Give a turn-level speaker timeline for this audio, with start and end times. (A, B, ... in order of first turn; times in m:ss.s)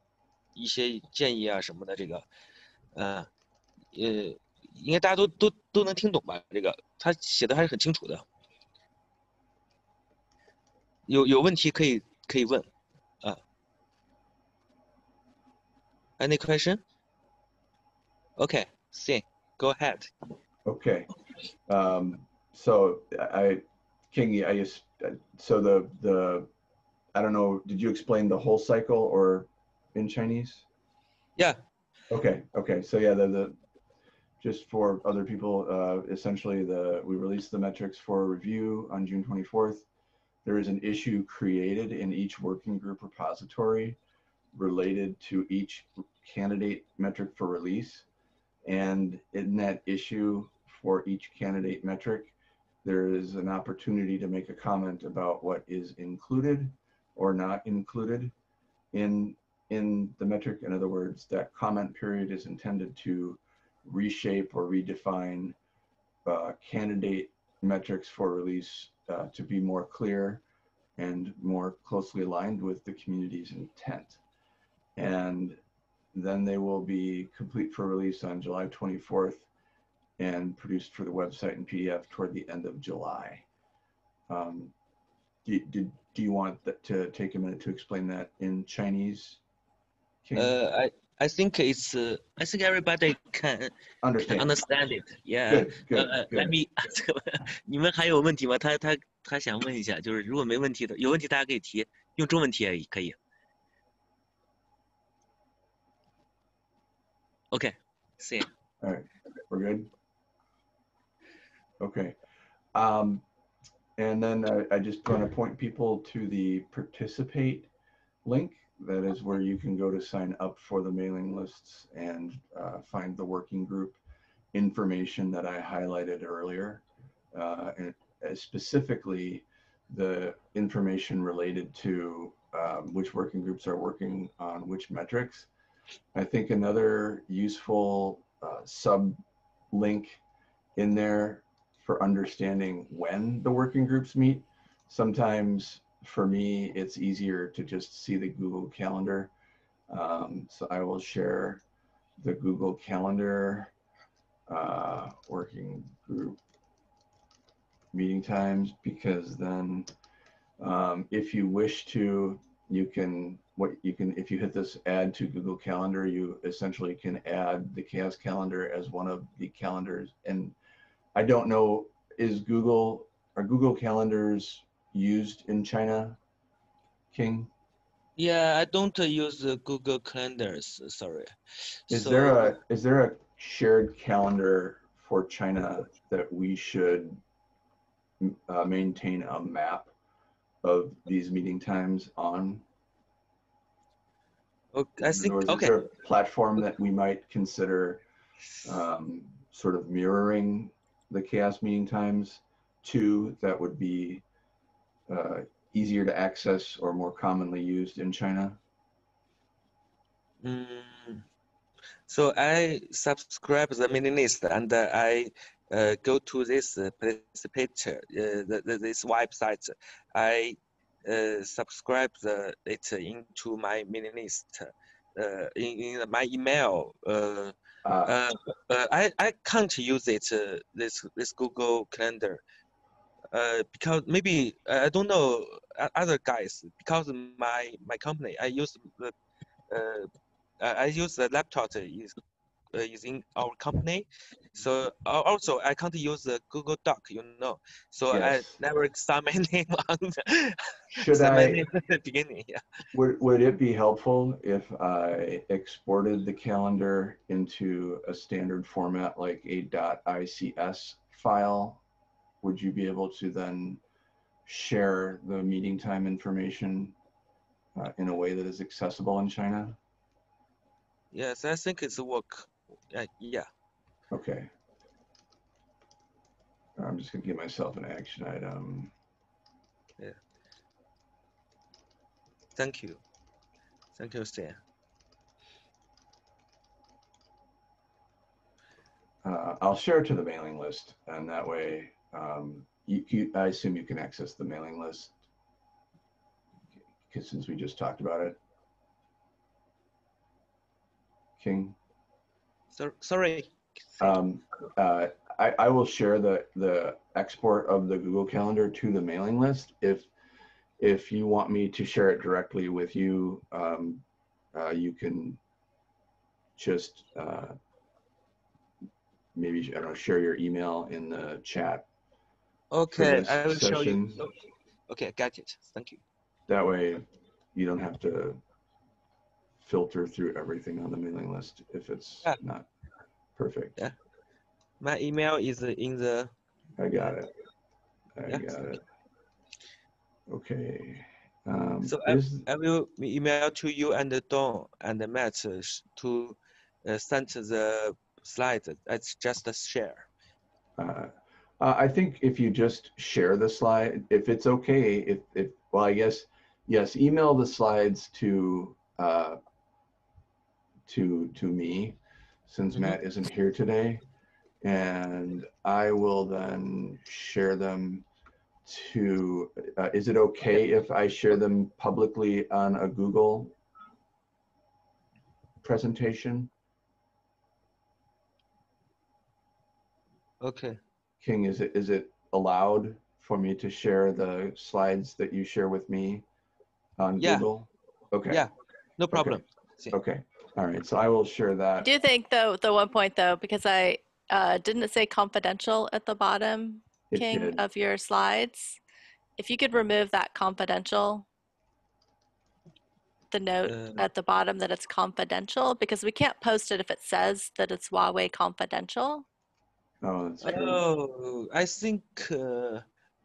0:00.6-0:02.2 A
0:02.9-0:03.3 A
0:03.9-0:08.2 A
0:11.1-0:12.7 A
0:16.2-0:16.8 A
0:18.4-0:20.1 A
0:20.6-0:21.1 B
0:21.7-0:26.5 B
0:27.2-0:30.7 B
0:32.1-0:33.6 B
0:34.4-0:39.9 B
0:40.4-0:44.0 B
0:44.5-0:48.1 B
0:48.6-0:58.3 B
0:58.9-1:05.6 B
1:06.2-1:10.4 B
1:11.0-1:14.2 B
1:15.0-1:15.6 B
1:16.1-1:19.5 B
1:20.2-1:23.4 B
1:24.3-1:24.7 B
1:25.4-1:29.4 B
1:30.2-1:30.6 B
1:30.4-1:33.7 A
1:34.0-1:34.5 B
1:34.3-1:43.2 A
1:35.5-1:36.6 B
1:47.5-1:48.5 A
1:48.8-1:49.9 B
1:51.8-1:52.2 B
1:52.8-1:53.2 B
1:54.0-1:57.7 B
1:58.2-2:04.0 B
2:04.5-2:15.5 B
2:16.1-2:19.2 B
2:19.7-2:20.2 B
2:20.8-2:29.3 B
2:29.9-2:31.6 B
2:32.2-2:33.7 B
2:34.5-2:36.4 B
2:37.9-2:39.9 B
2:40.6-2:50.6 B
2:51.2-2:56.2 B
2:57.1-2:57.5 B
2:58.2-3:01.3 A
3:01.9-3:02.5 A
3:01.9-3:07.2 B
3:08.2-3:09.9 B
3:10.6-3:12.6 B
3:14.7-3:15.8 A
3:15.0-3:18.0 B
3:18.6-3:24.2 B
3:25.1-3:28.6 B
3:30.4-3:31.2 A
3:32.1-3:52.4 A
3:47.8-3:48.2 B
3:53.3-3:59.1 A
3:59.7-4:00.1 A
4:00.6-4:02.2 A
4:02.7-4:12.6 A
4:08.1-4:08.6 B
4:10.9-4:11.6 B
4:12.9-4:21.8 B
4:22.4-4:23.8 B
4:24.4-4:27.0 B
4:27.8-4:29.8 B
4:31.1-4:33.5 A
4:34.1-4:34.5 B
4:36.8-4:38.9 B
4:42.6-4:43.0 A
4:44.0-4:44.6 A
4:49.2-4:55.1 B
4:57.1-4:58.4 B
5:01.4-5:01.8 B
5:02.7-5:04.1 A
5:04.0-5:10.1 B
5:10.8-5:15.4 B
5:16.6-5:17.6 B
5:19.4-5:21.9 B
5:22.7-5:24.3 A
5:22.9-5:24.2 B
5:24.9-5:26.0 A
5:26.5-5:28.4 B
5:29.6-5:32.7 B
5:33.4-5:33.8 B
5:34.8-5:36.3 A
5:36.8-5:37.3 B
5:38.2-5:38.8 B
5:38.3-5:38.7 A
5:40.3-5:42.4 B
5:41.9-5:50.1 A
5:50.8-5:59.4 B
6:00.9-6:04.0 B
6:04.6-6:08.1 B
6:08.6-6:13.6 B
6:15.6-6:16.5 B
6:20.4-6:20.8 A
6:21.2-6:26.2 B
6:27.0-6:28.4 B
6:27.2-6:27.4 A
6:28.3-6:30.0 A
6:29.1-6:29.4 B
6:29.9-6:31.9 B
6:31.8-6:38.8 C
6:37.1-6:37.6 B
6:39.4-6:41.3 C
6:43.3-6:49.2 C
6:43.7-6:44.0 A
6:50.0-6:50.8 B
6:50.4-6:52.8 A